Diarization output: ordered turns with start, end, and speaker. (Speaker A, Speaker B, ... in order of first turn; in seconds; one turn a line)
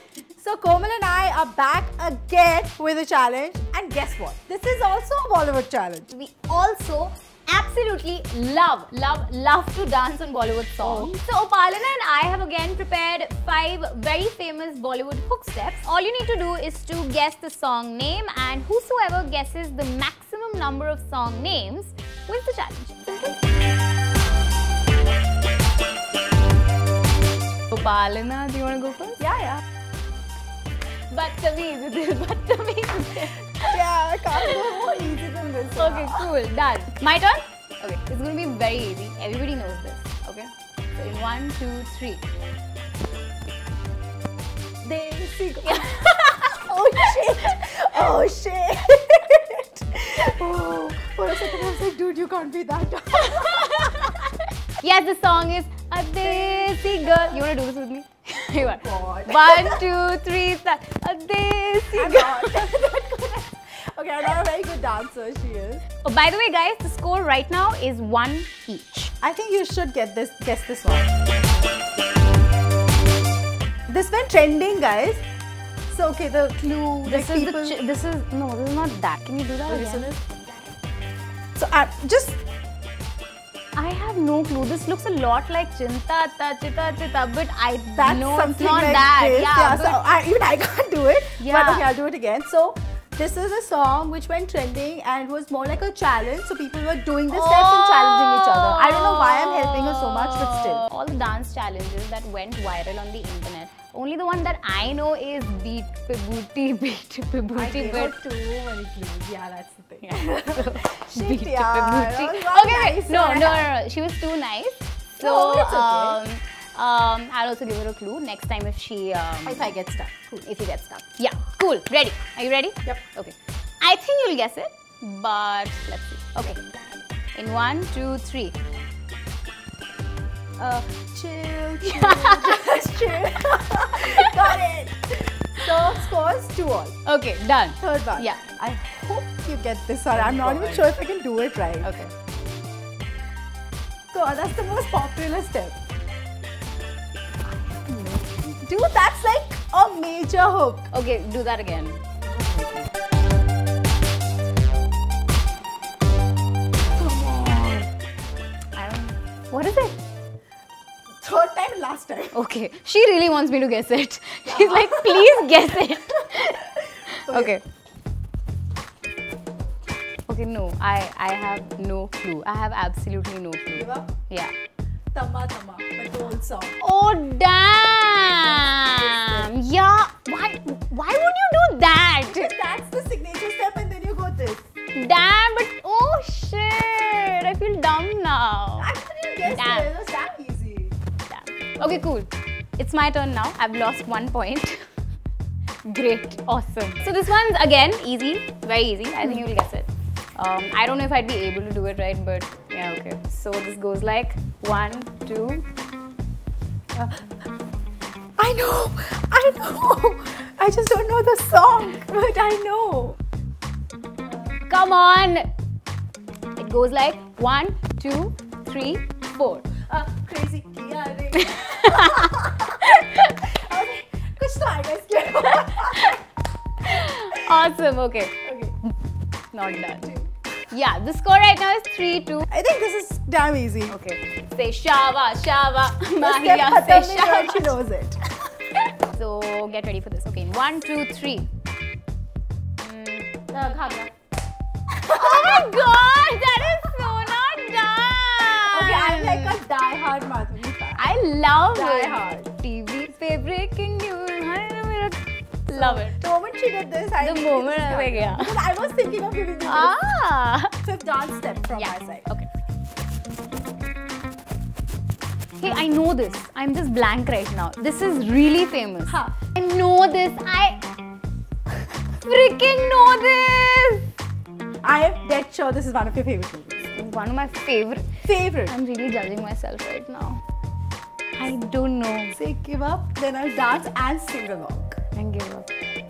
Speaker A: 0.4-6.1
Speaker B: 6.1-23.4
Speaker A: 10.8-11.2
Speaker B: 27.7-29.3
Speaker A: 29.2-29.6
Speaker B: 31.1-34.9
Speaker A: 33.6-36.3
Speaker B: 35.8-42.2
Speaker A: 44.8-54.1
Speaker B: 45.6-47.2
Speaker B: 53.3-54.3
Speaker B: 54.8-62.7
Speaker A: 56.2-57.4
Speaker A: 58.5-59.8
Speaker A: 61.9-65.8
Speaker B: 66.0-69.1
Speaker A: 69.2-71.2
Speaker A: 73.9-75.2
Speaker A: 75.9-77.8
Speaker B: 77.0-80.1
Speaker A: 79.7-80.4
Speaker A: 81.5-82.4
Speaker B: 83.7-90.0
Speaker A: 88.0-100.9
Speaker B: 91.4-91.9
Speaker B: 97.3-108.2
Speaker A: 107.5-113.7
Speaker B: 110.0-119.8
Speaker A: 115.2-116.2
Speaker A: 119.4-120.5
Speaker B: 120.4-126.8
Speaker B: 127.3-128.6
Speaker A: 130.6-136.9
Speaker B: 131.8-134.6
Speaker B: 135.6-136.1
Speaker B: 137.1-138.5
Speaker A: 137.8-141.9
Speaker B: 140.1-140.9
Speaker B: 141.8-142.1
Speaker A: 144.1-145.8
Speaker B: 147.8-148.4
Speaker A: 148.0-150.9
Speaker B: 150.9-152.0
Speaker A: 152.2-152.9
Speaker B: 157.0-157.9
Speaker B: 158.7-160.0
Speaker A: 161.2-162.4
Speaker B: 162.3-167.6
Speaker A: 164.4-167.5
Speaker B: 170.3-174.5
Speaker A: 173.7-174.1
Speaker A: 175.1-176.8
Speaker B: 176.8-182.5
Speaker A: 178.9-179.5
Speaker A: 182.3-184.6
Speaker B: 184.9-188.9
Speaker A: 188.8-190.9
Speaker B: 189.4-189.9
Speaker B: 191.3-194.8
Speaker B: 195.8-205.7
Speaker A: 206.9-207.2
Speaker A: 208.4-213.2
Speaker B: 214.7-215.5
Speaker B: 216.6-219.8
Speaker A: 219.7-226.2
Speaker B: 221.4-223.2
Speaker B: 225.7-226.2
Speaker B: 226.8-228.9
Speaker A: 226.8-227.5
Speaker A: 228.4-228.7
Speaker B: 229.5-230.2
Speaker A: 229.9-230.4
Speaker B: 230.7-232.5
Speaker A: 232.5-234.0
Speaker B: 233.9-237.8
Speaker A: 236.1-238.2
Speaker B: 238.8-241.5
Speaker B: 242.8-244.1
Speaker B: 245.0-249.6
Speaker A: 245.1-245.8
Speaker A: 248.6-251.1
Speaker B: 250.9-256.2
Speaker A: 251.7-252.5
Speaker A: 255.7-260.1
Speaker B: 257.2-258.6
Speaker B: 259.6-260.7
Speaker A: 260.8-262.3
Speaker B: 261.7-262.5
Speaker B: 265.6-270.9
Speaker A: 269.1-269.4
Speaker B: 271.7-274.1
Speaker A: 274.8-277.0
Speaker B: 276.9-280.4
Speaker A: 278.2-278.7
Speaker B: 281.4-282.4
Speaker A: 282.3-285.0
Speaker B: 285.1-285.7